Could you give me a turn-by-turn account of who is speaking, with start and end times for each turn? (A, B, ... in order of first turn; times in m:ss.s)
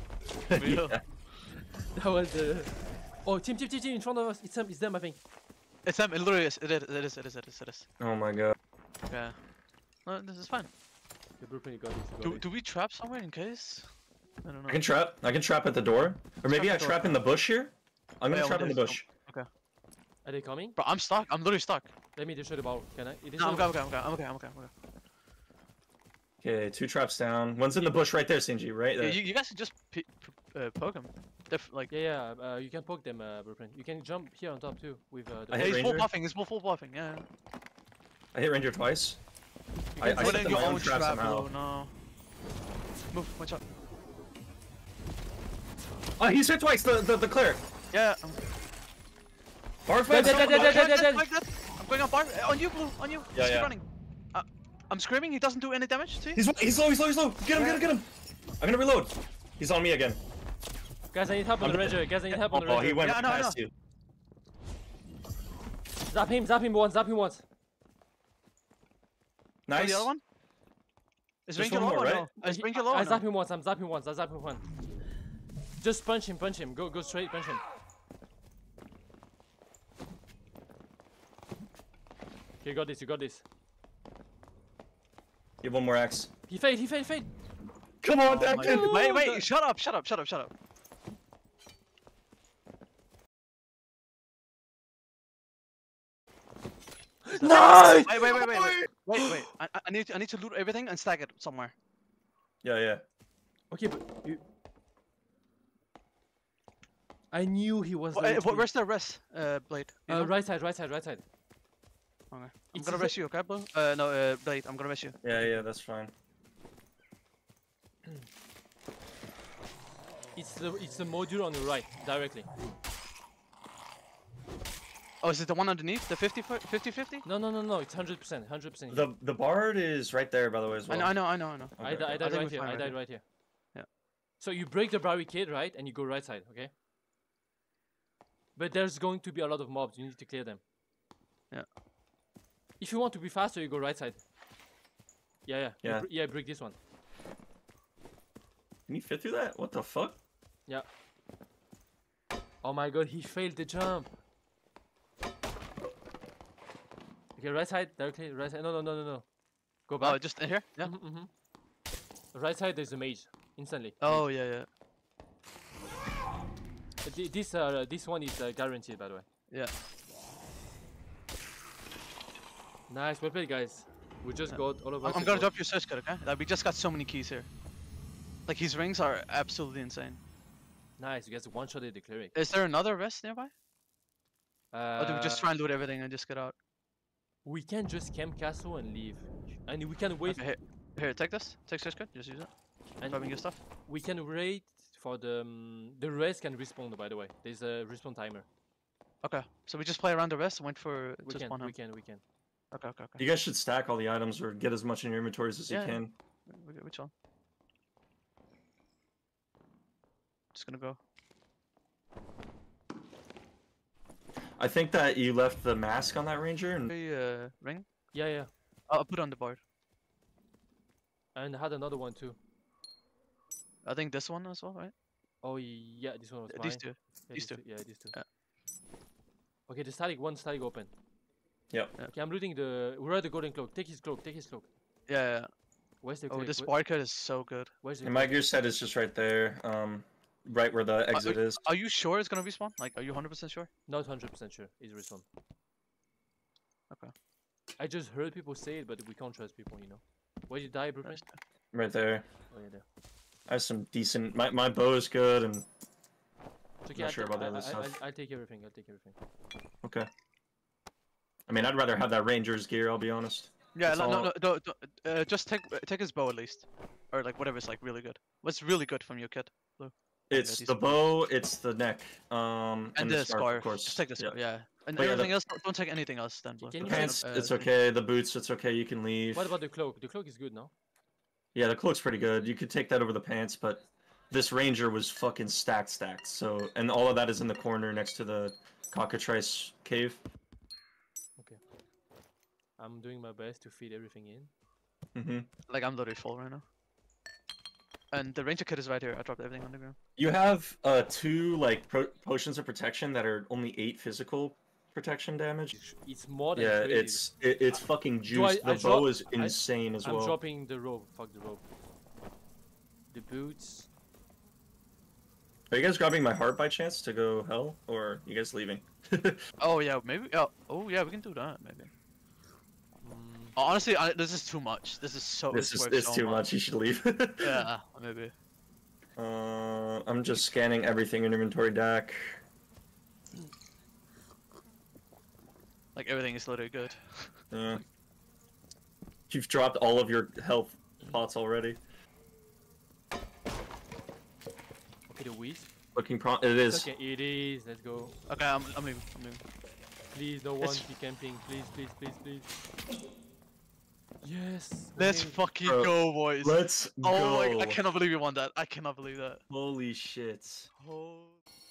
0:00.5-0:01.0 A
0:00.5-0:01.4 B
0:01.5-0:05.2 C
0:05.8-0:07.9 B
0:08.0-0:08.6 A
0:09.1-0:09.4 B
0:10.0-0:10.7 B
0:11.4-0:12.4 C
0:12.2-0:13.9 B
0:14.4-0:14.8 B
0:14.7-0:19.1 A
0:16.4-0:17.2 B
0:18.3-0:19.5 B
0:20.2-0:20.8 C
0:20.8-0:21.9 B
0:22.2-0:23.8 C
0:23.4-0:24.7 B
0:26.4-0:29.2 A
0:29.0-0:31.9 B
0:31.9-0:35.8 C
0:35.5-0:36.1 A
0:35.5-0:37.2 B
0:38.3-0:39.2 A
0:40.0-0:41.9 B
0:40.0-0:41.5 A
0:40.0-0:40.7 C
0:43.1-0:43.6 B
0:46.2-0:47.6 A
0:47.9-0:48.4 B
0:49.9-0:50.9 A
0:50.1-0:51.3 C
0:50.2-0:56.4 B
0:53.3-0:53.7 A
0:56.4-0:58.1 A
0:57.5-0:57.9 B
0:58.6-1:00.2 A
1:01.1-1:03.1 C
1:01.6-1:03.7 A
1:03.0-1:03.6 B
1:06.1-1:07.4 C
1:09.7-1:10.1 A
1:09.7-1:10.2 B
1:11.5-1:13.2 B
1:11.6-1:12.3 A
1:12.4-1:14.6 C
1:15.8-1:17.6 C
1:22.6-1:23.4 C
1:25.6-1:26.3 A
1:26.5-1:27.3 C
1:28.0-1:29.4 A
1:28.3-1:30.5 B
1:37.2-1:39.4 C
1:37.3-1:41.7 B
1:38.5-1:38.9 A
1:42.6-1:43.0 A
1:43.7-1:44.4 C
1:47.3-1:48.7 C
1:48.1-1:50.3 B
1:50.1-1:51.2 C
1:52.3-1:55.2 B
1:52.7-1:53.2 C
1:55.2-1:56.1 A
1:55.3-1:55.6 C
2:00.4-2:02.5 C
2:05.2-2:07.2 B
2:07.2-2:09.1 C
2:08.9-2:12.2 A
2:10.9-2:13.2 B
2:11.8-2:13.2 C
2:14.4-2:16.7 C
2:18.6-2:20.6 C
2:22.8-2:24.2 C
2:25.5-2:26.8 C
2:25.8-2:26.1 A
2:28.9-2:30.2 A
2:32.6-2:34.1 C
2:37.4-2:39.3 C
2:39.9-2:41.3 C
2:40.0-2:40.9 B
2:42.3-2:44.3 C
2:44.0-2:44.7 B
2:47.0-2:49.2 C
2:52.9-2:55.5 C
2:54.5-2:57.5 B
2:58.5-3:00.2 B
3:01.0-3:02.4 C
3:02.4-3:03.5 B
3:04.7-3:05.6 C
3:05.0-3:06.6 B
3:07.4-3:10.5 C
3:10.2-3:12.5 B
3:13.0-3:18.5 C
3:13.0-3:13.6 B
3:19.2-3:21.8 B
3:21.2-3:22.2 C
3:22.7-3:23.2 B
3:23.2-3:26.1 A
3:25.7-3:27.1 B
3:30.5-3:31.0 B
3:34.6-3:36.9 A
3:36.9-3:37.9 B
3:38.1-3:38.5 C
3:38.9-3:39.6 B
3:41.4-3:42.4 C
3:43.8-3:44.9 B
3:45.4-3:48.2 C
3:46.5-3:48.3 B
3:49.7-3:50.9 C
3:51.7-3:52.0 A
3:52.1-3:54.7 C
3:55.1-3:55.5 B
3:56.0-3:56.7 C
3:56.3-3:57.7 B
3:57.8-3:58.5 C
3:58.0-4:01.6 A
4:01.1-4:03.7 B
4:03.9-4:05.2 C
4:07.8-4:11.2 C
4:11.0-4:11.4 B
4:11.7-4:12.3 A
4:12.5-4:12.8 C
4:13.5-4:15.7 A
4:16.8-4:19.2 C
4:17.0-4:17.9 A
4:19.8-4:20.1 A
4:21.5-4:24.3 A
4:23.8-4:31.1 B
4:30.3-4:34.4 A
4:33.0-4:37.7 B
4:35.0-4:35.3 A
4:36.6-4:37.2 C
4:36.8-4:39.6 A
4:39.3-4:40.7 C
4:41.6-4:50.2 A
4:52.8-4:54.5 C
4:55.2-4:55.5 A
4:55.7-4:56.6 B
4:58.1-5:00.0 B
5:00.2-5:05.7 A
5:05.7-5:07.2 C
5:06.6-5:10.4 A
5:08.3-5:11.6 C
5:13.1-5:13.9 C
5:15.7-5:19.4 A
5:19.6-5:21.9 B
5:23.0-5:23.6 C
5:23.6-5:26.5 B
5:25.5-5:27.6 A
5:27.4-5:28.3 B
5:29.2-5:32.4 A
5:36.0-5:37.4 B
5:37.5-5:37.8 A
5:39.3-5:41.8 A
5:45.1-5:45.7 C
5:46.0-5:46.9 A
5:46.7-5:48.2 C
5:48.3-5:49.4 B
5:50.1-5:52.5 C
5:50.6-5:50.9 B
5:54.2-5:55.4 C
5:55.0-5:59.4 B
5:55.6-5:57.8 A
5:59.5-6:00.7 A
6:00.8-6:01.4 B